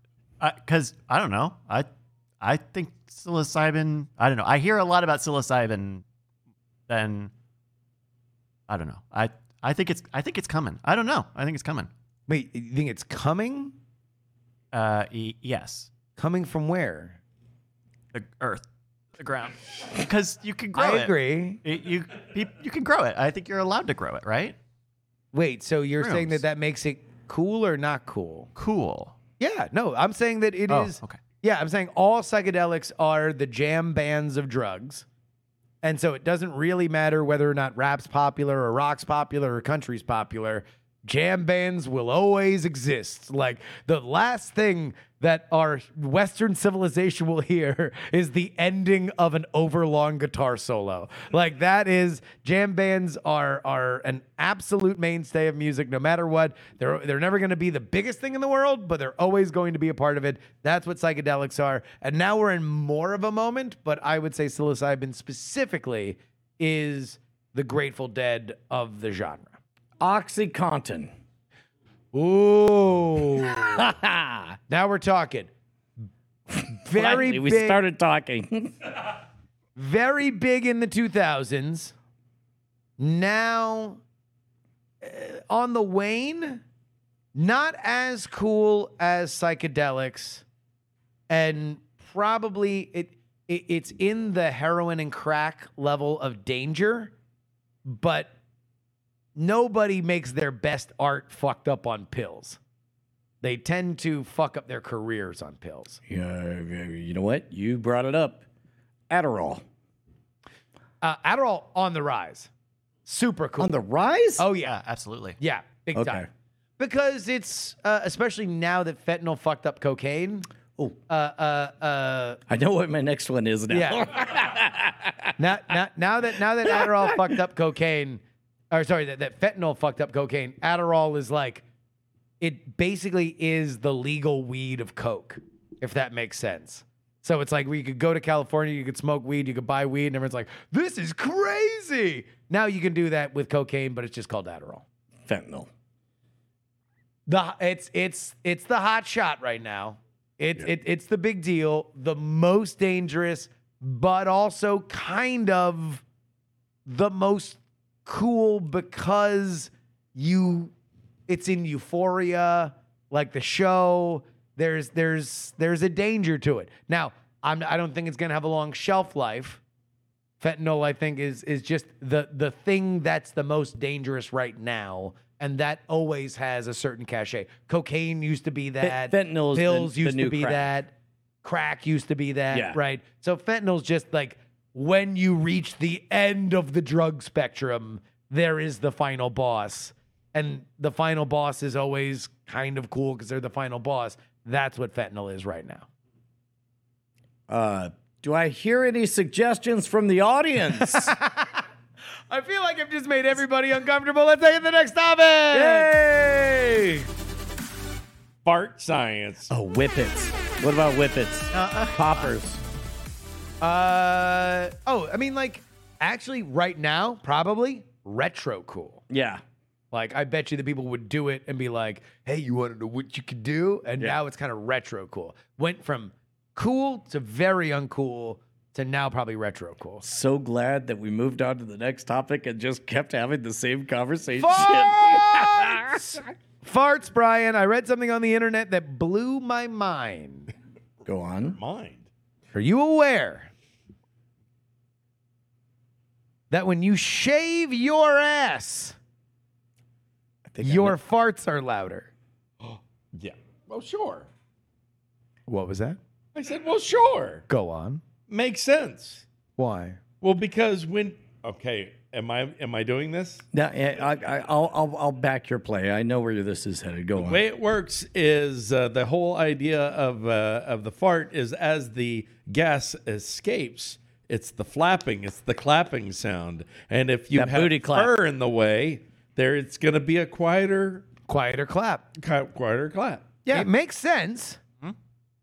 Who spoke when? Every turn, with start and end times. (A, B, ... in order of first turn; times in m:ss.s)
0:00.4-0:01.9 A
0:02.4-0:06.0 A
0:06.9-0:07.3 A
0:08.7-0:11.9 A
0:12.3-0:13.7 B
0:14.7-0:15.9 A
0:16.2-0:17.2 B
0:18.1-0:18.6 A
0:19.2-0:24.6 A
0:20.8-0:21.6 B
0:25.3-0:28.5 B
0:26.0-0:26.4 A
0:28.6-0:29.1 A
0:29.4-0:35.0 B
0:30.7-0:31.2 A
0:35.8-1:09.5 B
1:10.0-1:11.1 C
1:12.1-1:13.8 B
1:13.6-1:14.5 C
1:14.7-1:15.5 B
1:16.7-1:17.8 B
1:16.9-1:18.7 C
1:19.8-1:21.9 B
1:23.0-1:24.0 B
1:25.0-1:26.6 B
1:27.3-1:30.4 B
1:31.3-1:37.1 B
1:37.8-1:38.3 B
1:39.4-1:42.6 B
1:43.4-1:46.0 B
1:46.1-1:48.4 C
1:49.1-1:49.6 C
1:51.0-1:52.5 B
1:53.0-1:53.7 B
1:53.6-1:54.4 C
1:54.4-1:54.8 B
1:54.6-1:55.4 A
1:55.4-1:56.2 B
1:55.9-1:56.3 C
1:56.8-2:00.5 B
2:01.1-2:02.4 B
2:02.5-2:05.3 C
2:03.7-2:04.0 B
2:05.4-2:11.6 B
2:06.6-2:07.1 C
2:12.4-2:24.8 B
2:25.2-2:25.7 C
2:27.3-2:36.0 B
2:36.8-2:40.7 B
2:41.3-2:49.6 B
2:50.4-3:00.9 B
2:58.8-3:00.7 C
3:01.4-3:15.8 B
3:02.5-3:02.8 C
3:17.5-3:21.1 C
3:20.9-3:21.5 B
3:22.3-3:25.9 B
3:25.5-3:27.1 C
3:28.4-3:29.5 D
3:29.5-3:32.6 C
3:31.5-3:32.3 A
3:33.6-3:39.0 B
3:39.1-3:39.4 C
3:39.9-3:50.0 B
3:50.0-3:56.1 C
3:54.4-4:00.5 B
4:01.0-4:01.6 C
4:01.5-4:02.0 D
4:02.5-4:03.5 B
4:06.5-4:09.0 B
4:10.5-4:11.0 C
4:10.6-4:12.1 B
4:12.6-4:14.3 D
4:15.5-4:16.0 B
4:16.3-4:17.4 D
4:17.5-4:18.0 B
4:18.3-4:19.2 D
4:19.6-4:20.0 B
4:20.2-4:23.4 D
4:23.5-4:27.4 C
4:27.2-4:41.0 D
4:37.3-4:38.1 C
4:41.3-4:42.0 B
4:42.2-4:43.4 D
4:43.5-4:44.6 B